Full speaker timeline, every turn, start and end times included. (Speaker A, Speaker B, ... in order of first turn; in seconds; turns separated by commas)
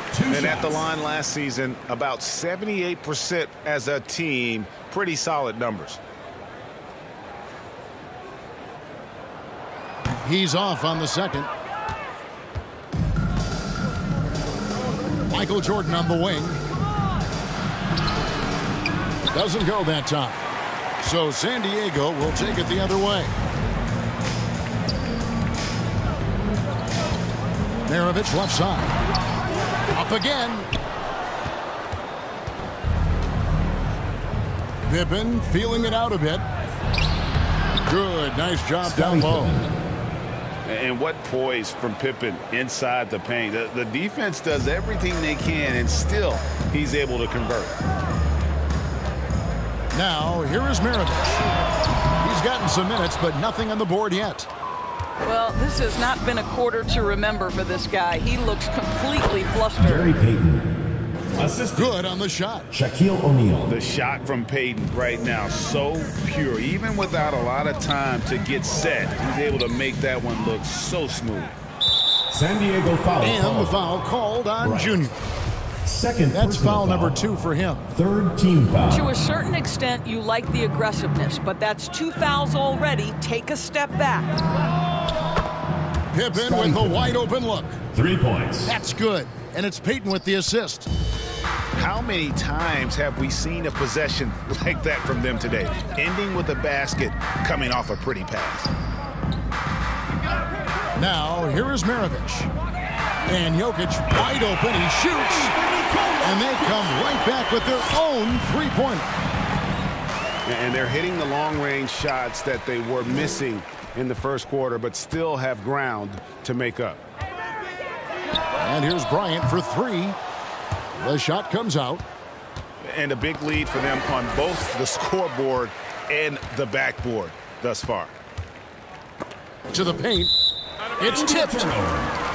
Speaker A: 0.1-0.9, Speaker B: 0.3-6.0, Speaker C: 10.2-11.5, Speaker C: 15.3-16.6, Speaker C: 19.3-20.4, Speaker C: 21.0-23.3, Speaker C: 27.9-29.0, Speaker C: 29.9-30.7, Speaker C: 34.9-36.5, Speaker C: 37.8-39.7, Speaker A: 38.8-39.7, Speaker B: 40.6-47.8, Speaker C: 49.9-51.5, Speaker C: 52.2-54.5, Speaker D: 55.2-60.1, Speaker A: 59.8-60.7, Speaker A: 61.4-62.0, Speaker C: 61.7-62.7, Speaker A: 62.7-63.8, Speaker B: 63.7-71.5, Speaker A: 72.3-73.8, Speaker C: 73.2-75.2, Speaker A: 74.6-75.1, Speaker A: 75.8-77.2, Speaker C: 76.3-77.9, Speaker A: 77.9-79.1, Speaker D: 78.9-84.3, Speaker C: 86.1-87.8, Speaker A: 86.3-87.0, Speaker A: 87.9-88.7, Speaker C: 88.7-90.9, Speaker B: 91.8-98.7, Speaker C: 101.0-102.5, Speaker C: 103.3-105.5, Speaker A: 105.4-106.9, Speaker C: 106.2-109.1, Speaker B: 110.5-117.0, Speaker C: 118.6-120.2, Speaker C: 121.0-122.0, Speaker B: 122.8-128.1, Speaker C: 129.7-130.3, Speaker C: 131.0-131.7, Speaker A: 131.0-132.1